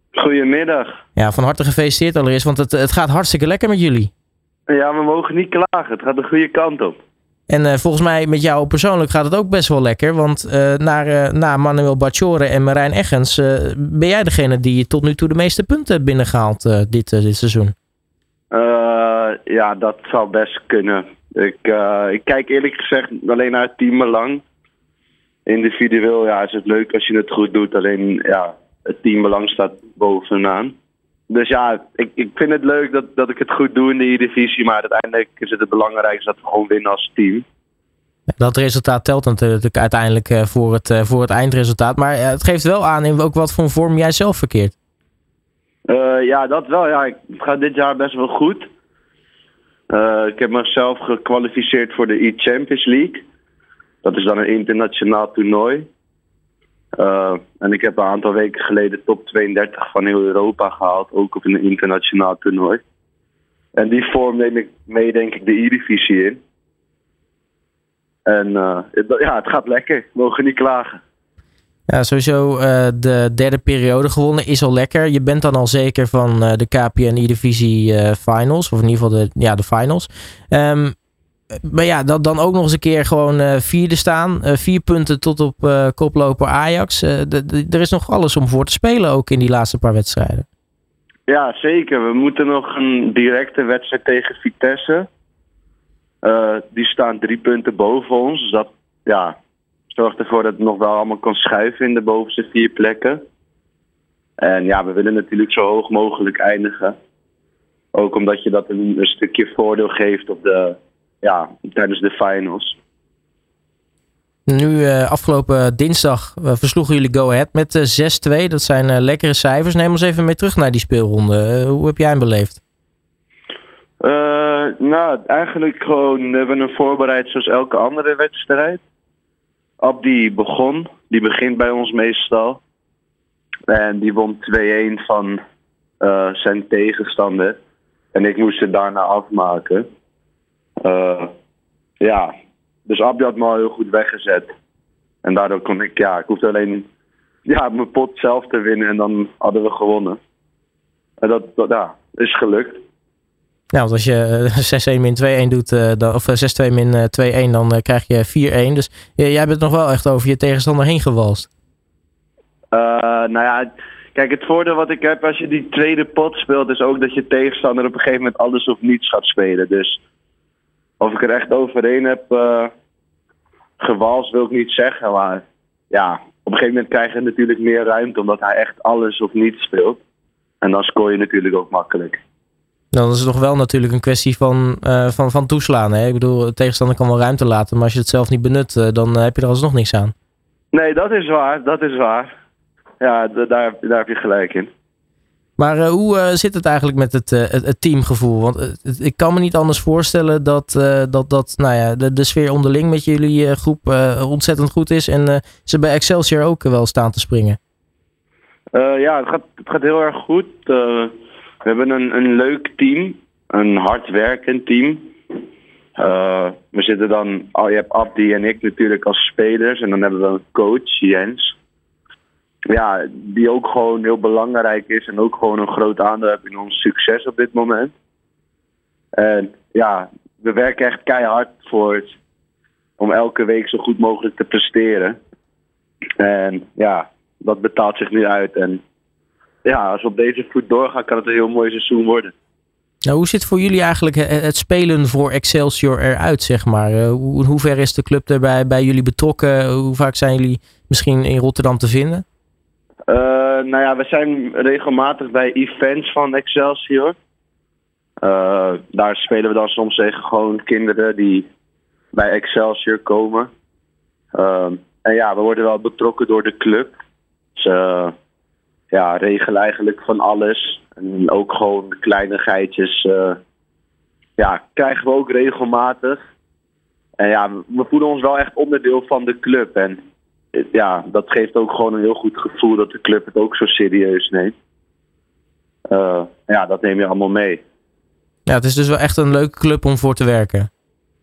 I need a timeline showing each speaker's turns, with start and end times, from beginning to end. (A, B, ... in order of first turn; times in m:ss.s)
0:00.1-0:01.0 A
0:01.2-0:04.1 B
0:04.7-0:07.0 A
0:07.5-0:17.7 B
0:18.5-0:24.4 A
0:25.5-0:30.8 A
0:31.3-0:37.5 A
0:38.4-0:44.7 B
0:45.9-0:48.7 A
0:49.9-0:53.3 A
0:54.0-0:55.9 A
0:57.0-1:02.8 A
1:03.8-1:06.4 A
1:08.2-1:11.0 A
1:11.9-1:21.0 B
1:21.6-1:30.5 B
1:31.3-1:35.1 A
1:36.2-1:39.4 A
1:39.9-1:43.2 A
1:44.4-1:47.0 A
1:47.9-1:52.8 A
1:54.5-2:02.6 B
2:04.0-2:08.8 A
2:09.8-2:12.6 A
2:13.7-2:15.4 A
2:16.0-2:17.6 A
2:18.1-2:19.9 A
2:20.8-2:21.3 A
2:22.0-2:22.3 A
2:22.9-2:24.5 A
2:25.2-2:26.9 A
2:27.5-2:30.2 A
2:31.2-2:32.8 A
2:33.7-2:41.5 B
2:42.7-2:50.0 A
2:51.0-2:52.7 A
2:53.8-3:00.0 A
3:00.6-3:02.2 A
3:02.9-3:10.1 B
3:10.7-3:12.3 A
3:13.0-3:14.7 A
3:15.6-3:27.6 B
3:28.7-3:35.1 A
3:36.0-3:41.6 A
3:42.7-3:48.0 A
3:49.1-3:52.2 A
3:53.0-3:55.2 A
3:56.2-3:58.8 A
3:59.6-4:02.3 A
4:03.1-4:12.2 B
4:13.1-4:17.2 A
4:18.2-4:21.5 A
4:22.1-4:23.5 A
4:24.3-4:27.0 A
4:27.6-4:28.1 A
4:28.9-4:33.4 A
4:34.4-4:36.2 A
4:37.2-4:40.0 A
4:40.5-4:44.6 A
4:45.9-4:47.6 A
4:48.5-4:50.7 B